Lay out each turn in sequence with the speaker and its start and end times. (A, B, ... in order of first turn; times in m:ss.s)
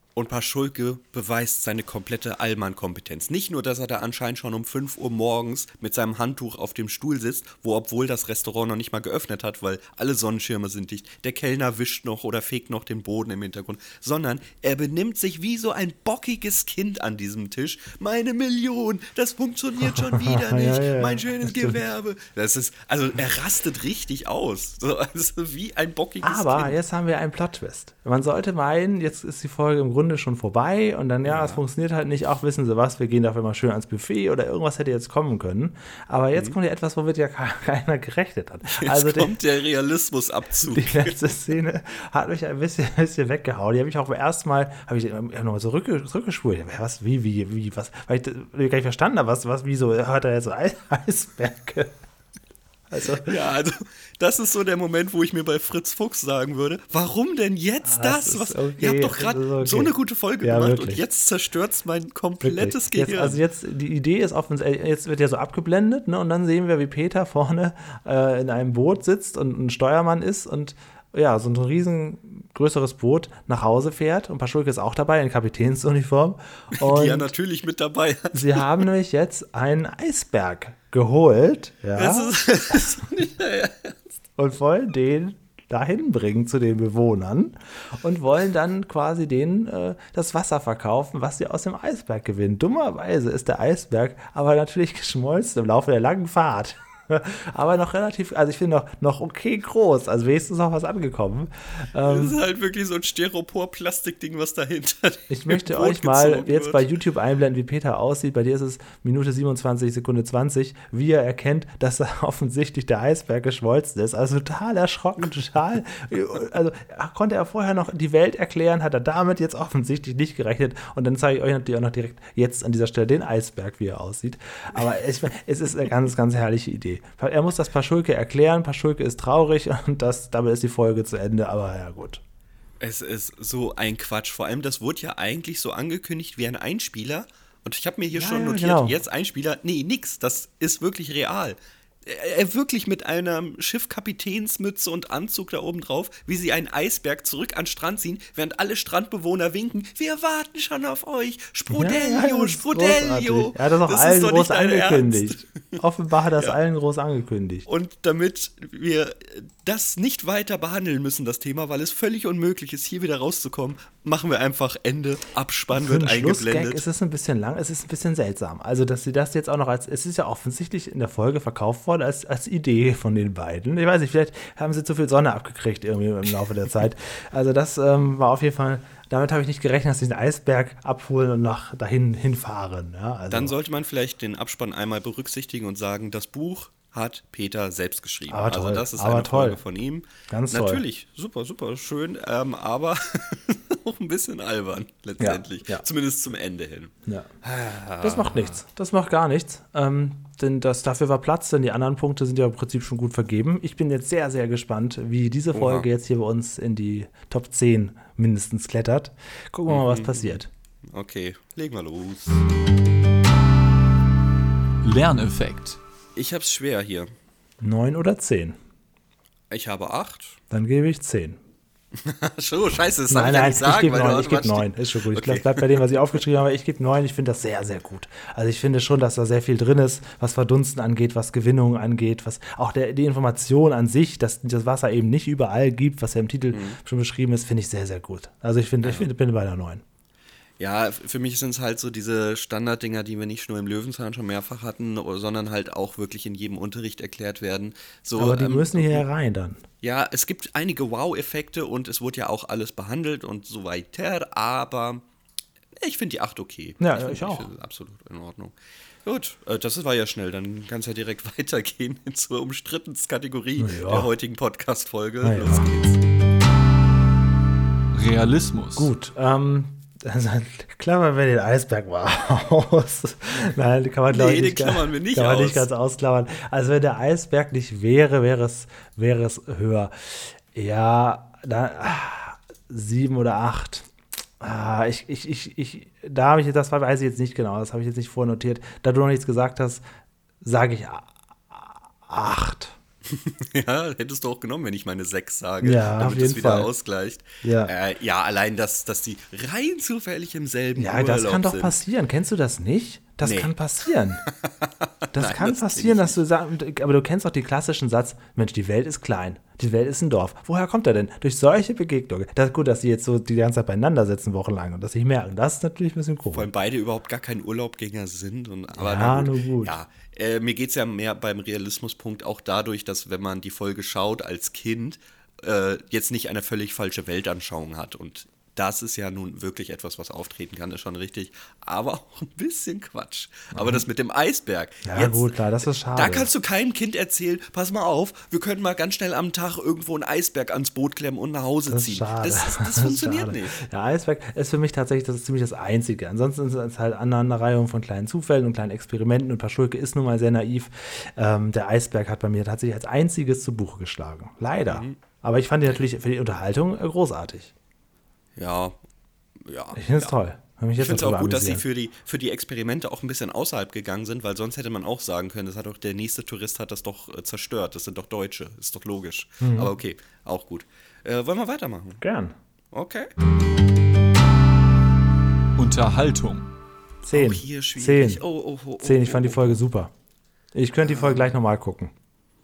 0:00.2-0:26.8 A
0:20.0-0:21.8 B
0:26.2-0:39.4 B
0:31.2-0:31.6 A
0:38.7-0:41.2 A
0:40.7-0:51.9 B
0:52.9-0:53.3 B
0:53.2-1:03.4 A
0:57.8-1:01.0 B
1:02.4-1:17.3 B
1:16.8-1:18.8 A
1:18.3-1:22.9 B
1:22.0-1:24.1 A
1:24.4-1:42.4 B
1:42.0-1:46.8 A
1:45.3-2:12.2 B
2:12.8-2:35.8 A
2:18.2-2:19.0 B
2:31.7-2:37.7 B
2:37.7-2:46.8 A
2:45.7-3:03.5 B
3:03.3-3:18.6 A
3:08.3-3:09.6 B
3:10.3-3:10.8 B
3:15.2-3:15.8 B
3:18.0-3:30.5 B
3:25.5-3:25.9 A
3:29.7-3:30.4 A
3:30.9-3:32.4 A
3:34.8-3:35.8 C
3:36.2-3:37.1 A
3:37.6-3:38.6 B
3:39.5-3:40.4 A
3:40.5-3:41.4 B
3:42.0-3:45.9 A
3:43.1-3:59.8 B
3:56.5-3:56.8 A
3:58.8-3:59.1 A
4:00.6-4:09.0 A
4:08.2-4:09.6 B
4:09.8-4:15.0 A
4:15.8-4:26.0 A
4:16.8-4:17.5 B
4:23.6-4:24.1 B
4:25.2-4:25.7 B
4:27.9-4:28.9 C
4:28.8-4:49.8 B
4:34.1-4:35.7 A
4:50.4-4:52.8 B
4:53.1-5:01.8 A
4:55.6-4:56.7 B
4:57.4-4:57.7 B
5:00.8-5:04.2 B
5:03.2-5:03.5 A
5:04.2-5:06.2 A
5:05.1-5:16.5 B
5:16.3-5:43.6 A
5:18.8-5:19.8 B
5:33.6-5:33.8 B
5:34.9-5:36.3 B
5:41.7-5:57.5 B
5:54.7-5:55.0 A
5:58.4-5:58.8 A
5:59.4-6:00.1 A
5:59.8-6:01.6 B
6:00.8-6:12.0 A
6:09.4-6:09.7 B
6:12.0-6:12.4 B
6:12.7-6:13.1 A
6:15.6-6:16.5 C
6:17.0-6:18.2 B
6:17.1-6:19.6 A
6:18.8-6:19.9 B
6:20.5-6:21.9 B
6:20.9-6:21.3 A